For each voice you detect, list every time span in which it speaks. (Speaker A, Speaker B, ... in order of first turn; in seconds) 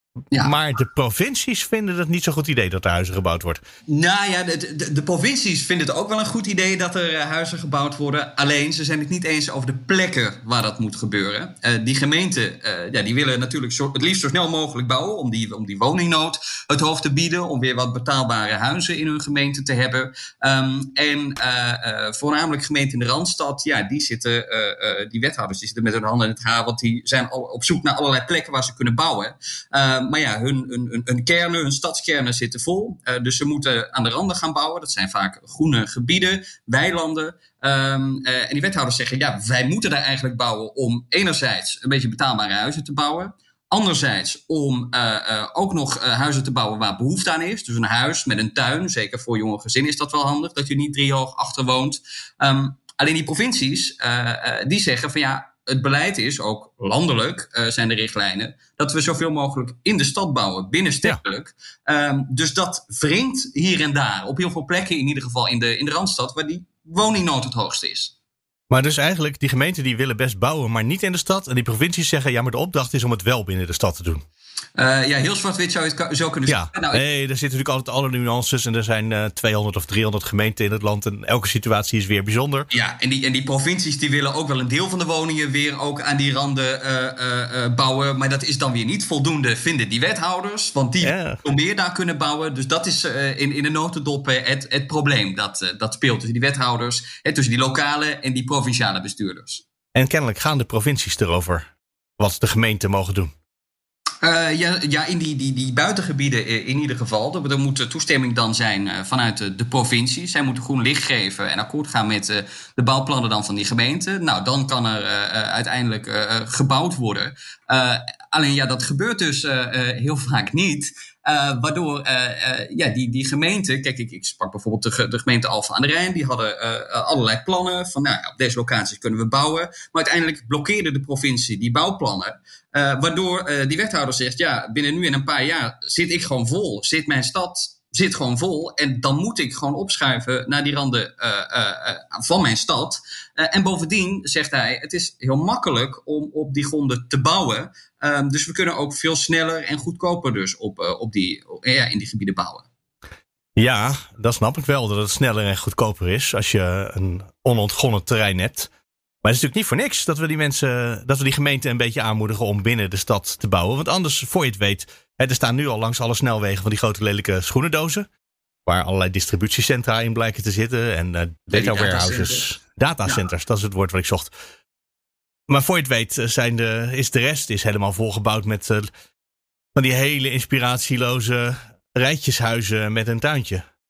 Speaker A: 0.4-3.6, 68.7-74.2, 76.5-82.7, 91.0-91.4, 100.0-101.7, 102.2-103.3, 153.6-158.7, 159.2-168.1, 168.7-174.3, 175.5-178.9, 179.8-183.7
Speaker B: 3.9-68.1, 74.8-77.0, 82.7-99.6, 104.2-152.7, 171.5-172.5